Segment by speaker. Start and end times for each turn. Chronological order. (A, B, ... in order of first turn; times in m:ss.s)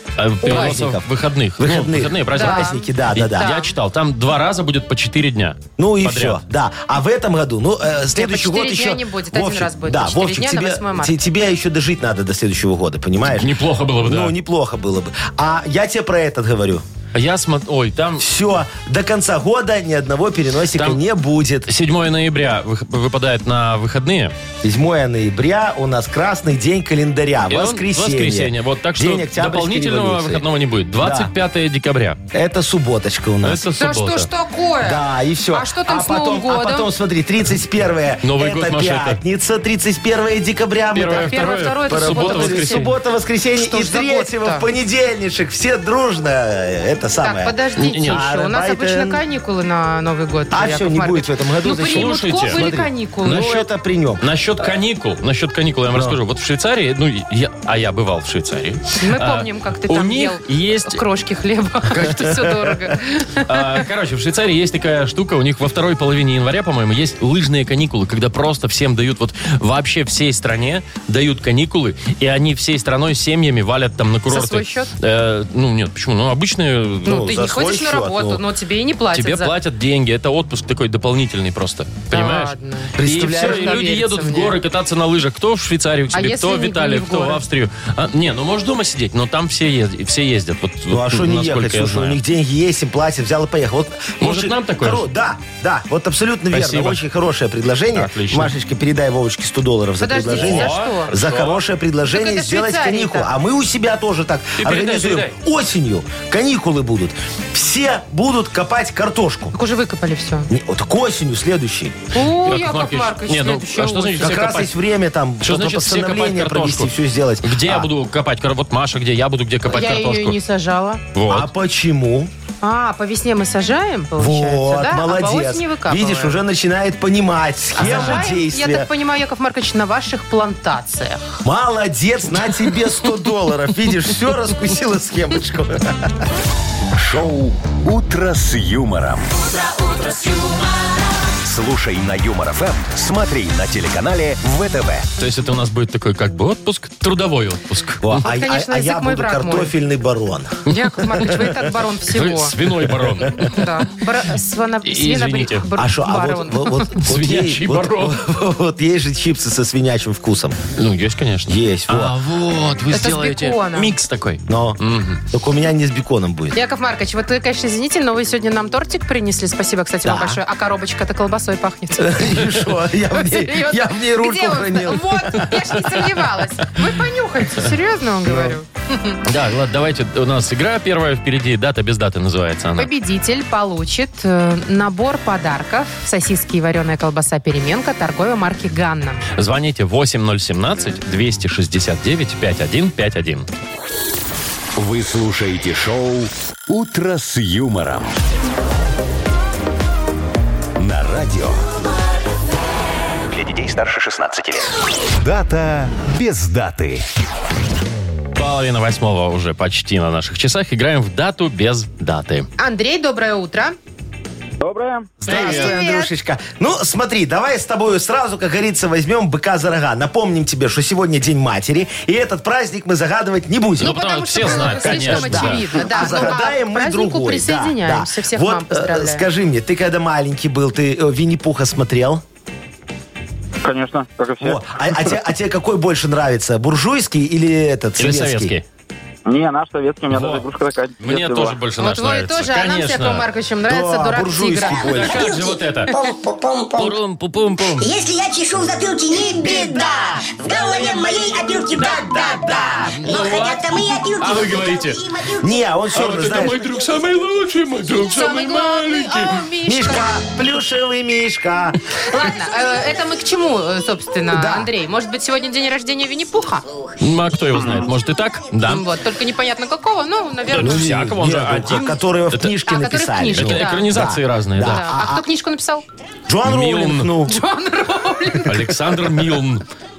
0:00.2-0:06.4 A
0:00.4-0:01.1 B
0:00.4-0:00.7 C
0:01.6-0:03.6 B
0:02.3-0:03.7 C
0:05.8-0:16.8 B
0:08.1-0:11.2 C
0:13.4-0:14.3 A
0:17.1-0:18.3 A
0:18.2-0:21.7 B
0:20.7-0:21.0 A
0:21.7-0:24.3 A
0:24.6-0:30.4 B
0:27.5-0:32.2 A
0:31.0-0:31.3 B
0:32.3-0:33.6 B
0:33.4-0:34.3 A
0:33.8-0:36.9 C
0:34.8-0:49.2 B
0:38.2-0:39.2 A
0:40.9-0:42.9 A
0:41.1-0:42.9 C
0:43.5-0:44.6 C
0:47.2-0:53.6 C
0:47.8-0:48.2 A
0:50.5-0:54.2 B
0:51.8-0:52.6 A
0:53.2-0:53.7 A
0:54.2-1:01.0 A
0:55.9-0:56.2 B
0:59.0-1:03.8 C
1:01.9-1:02.5 A
1:03.5-1:17.3 A
1:14.3-1:14.9 C
1:17.0-1:18.4 B
1:17.0-1:19.5 C
1:19.1-1:32.2 A
1:22.1-1:24.6 C
1:23.0-1:23.8 B
1:26.1-1:27.4 C
1:30.9-1:49.5 B
1:34.2-1:35.0 A
1:36.5-1:37.0 A
1:37.9-1:38.5 A
1:40.0-1:41.1 C
1:40.3-1:41.6 A
1:42.1-1:43.3 C
1:44.6-1:45.3 A
1:49.5-1:50.5 C
1:50.5-1:52.0 B
1:52.1-1:54.3 C
1:52.2-1:54.7 A
1:54.2-1:57.9 B
1:55.4-1:56.9 A
1:57.4-2:00.4 A
1:59.7-2:01.0 C
2:01.1-2:01.5 A
2:01.3-2:02.3 B
2:02.6-2:06.4 C
2:04.2-2:08.9 B
2:07.8-2:11.2 C
2:07.8-2:08.3 A
2:11.4-2:16.1 B
2:16.9-2:19.4 D
2:21.4-2:25.1 D
2:25.2-2:28.2 A
2:28.0-2:30.6 B
2:28.2-2:29.7 C
2:30.6-2:32.5 C
2:31.2-2:31.5 B
2:32.1-2:33.5 A
2:33.3-2:36.8 C
2:34.8-2:35.6 A
2:35.8-2:40.6 B
2:37.0-2:38.2 A
2:40.8-2:45.2 A
2:41.5-2:42.2 B
2:42.9-2:43.9 C
2:44.5-2:46.6 B
2:46.5-2:52.4 C
2:50.0-2:50.4 B
2:52.0-2:55.6 B
2:53.1-2:59.2 C
2:58.2-2:58.6 B
2:59.2-3:02.9 A
3:02.8-3:09.2 C
3:09.4-3:13.5 A
3:14.8-3:18.2 D
3:20.8-3:21.6 D
3:23.3-3:27.0 D
3:28.3-3:32.5 A
3:32.6-3:33.8 C
3:34.6-3:35.2 E
3:35.2-3:35.8 A
3:35.2-3:52.2 B
3:35.2-3:36.1 C
3:43.8-3:46.3 A
3:43.8-3:49.2 C
3:53.6-3:54.6 E
3:54.4-3:58.5 B
3:58.0-3:58.6 A
3:59.2-4:01.6 E
4:00.1-4:00.4 A
4:01.0-4:03.3 A
4:01.8-4:05.0 C
4:03.7-4:05.2 B
4:04.6-4:07.0 F
4:04.8-4:05.9 A
4:06.8-4:07.9 A
4:07.8-4:15.7 F
4:12.9-4:15.0 A
4:15.4-4:16.6 B
4:15.9-4:19.4 A
4:18.0-4:20.1 C
4:19.6-4:22.3 B
4:22.1-4:26.6 C
4:24.3-4:24.7 B
4:27.0-4:28.8 A
4:28.7-4:31.1 C
4:30.5-4:32.5 A
4:30.5-4:35.2 B
4:32.7-4:34.0 C
4:33.3-4:34.8 A
4:34.6-4:35.8 C
4:36.3-4:37.4 B
4:36.4-4:37.1 A
4:37.3-4:38.7 C
4:38.4-4:39.6 A